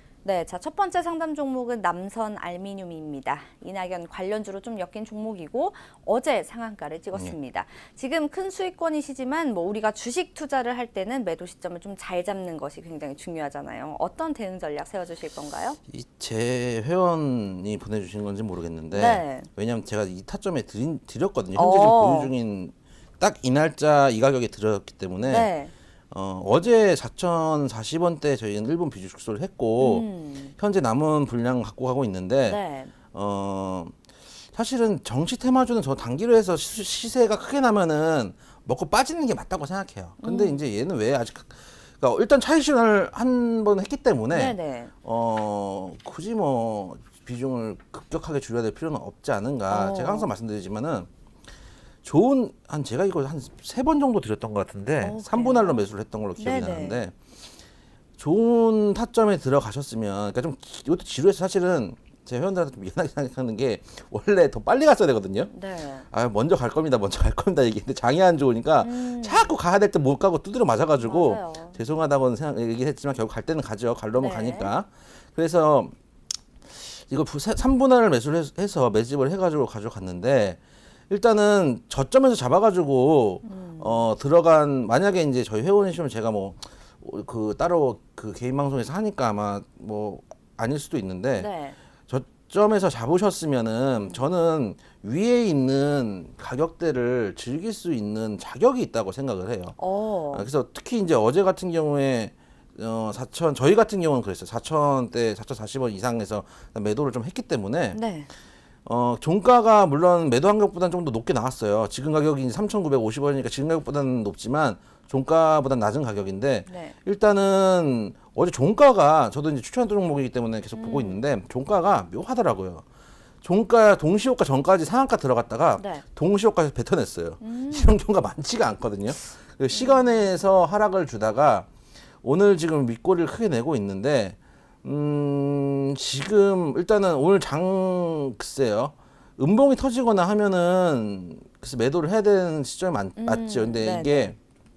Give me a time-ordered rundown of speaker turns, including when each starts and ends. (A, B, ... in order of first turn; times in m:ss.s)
0:00.2-0:15.8 A
0:15.9-0:25.5 B
0:18.9-0:19.5 A
0:21.5-0:22.3 A
0:25.2-0:25.7 A
0:26.1-0:30.0 B
0:29.8-0:30.5 A
0:30.6-0:34.0 B
0:32.4-0:32.9 A
0:34.5-0:51.1 B
0:40.2-0:40.6 A
0:44.3-0:44.9 A
0:49.7-0:50.3 A
0:52.0-0:57.2 B
0:55.0-0:55.8 A
0:56.4-0:57.0 A
0:58.2-1:05.5 B
1:05.5-1:06.0 A
1:06.1-1:15.9 B
1:08.8-1:09.5 A
1:11.0-1:11.8 A
1:14.2-1:14.7 A
1:16.7-1:20.6 B
1:21.1-1:31.5 B
1:23.4-1:24.0 A
1:31.4-1:31.8 A
1:32.1-1:39.8 B
1:39.8-1:40.5 A
1:40.3-1:48.0 B
1:47.9-1:48.3 A
1:48.8-2:02.8 B
1:56.7-1:56.9 A
2:00.7-2:01.2 A
2:03.4-2:11.7 B
2:05.8-2:06.0 A
2:07.4-2:07.9 A
2:09.7-2:10.0 A
2:12.2-2:24.4 B
2:23.2-2:24.3 A